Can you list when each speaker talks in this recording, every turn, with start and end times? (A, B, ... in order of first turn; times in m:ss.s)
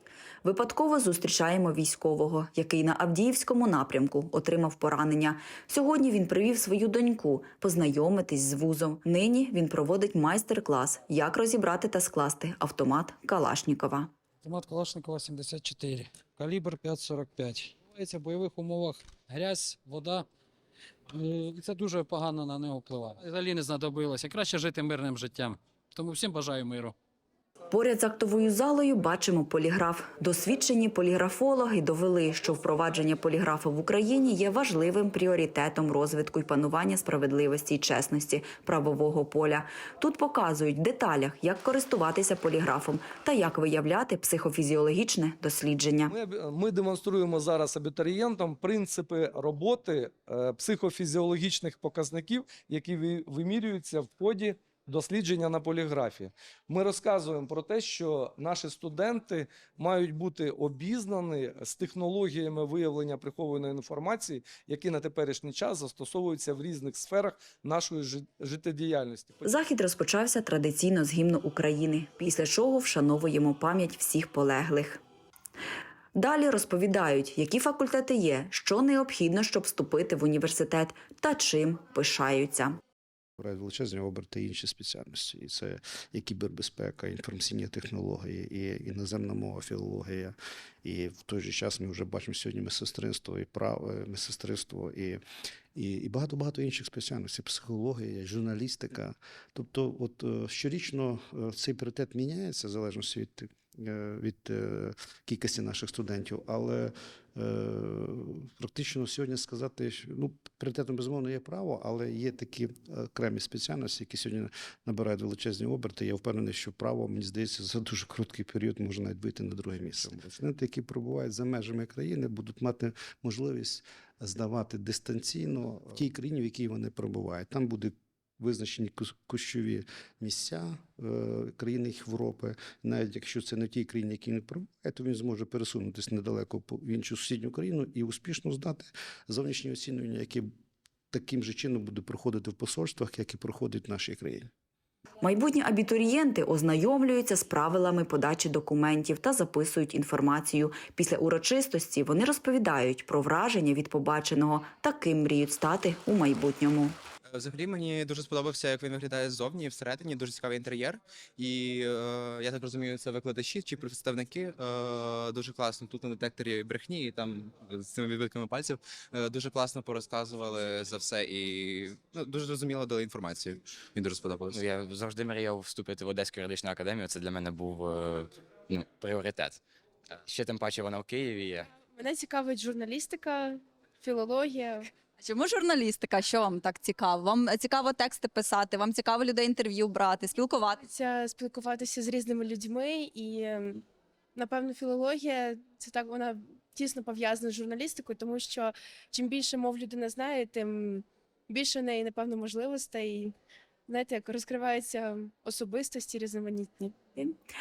0:00.4-0:14.1 A
0:14.4-0:20.3 B
0:21.1-0:27.0 B
0:27.7-0:46.1 A
0:46.1-1:09.5 C
1:09.4-1:15.0 A
1:16.1-1:22.8 A
1:23.4-1:35.2 D
1:35.8-2:20.5 D
2:21.1-2:24.5 D
2:25.2-2:37.0 A
2:37.3-2:54.5 E
2:54.5-2:59.6 F
3:00.2-3:01.7 F
3:01.9-3:04.8 G
3:05.2-3:10.8 H
3:10.8-3:13.8 G
3:14.4-3:23.3 G
3:23.9-3:26.9 G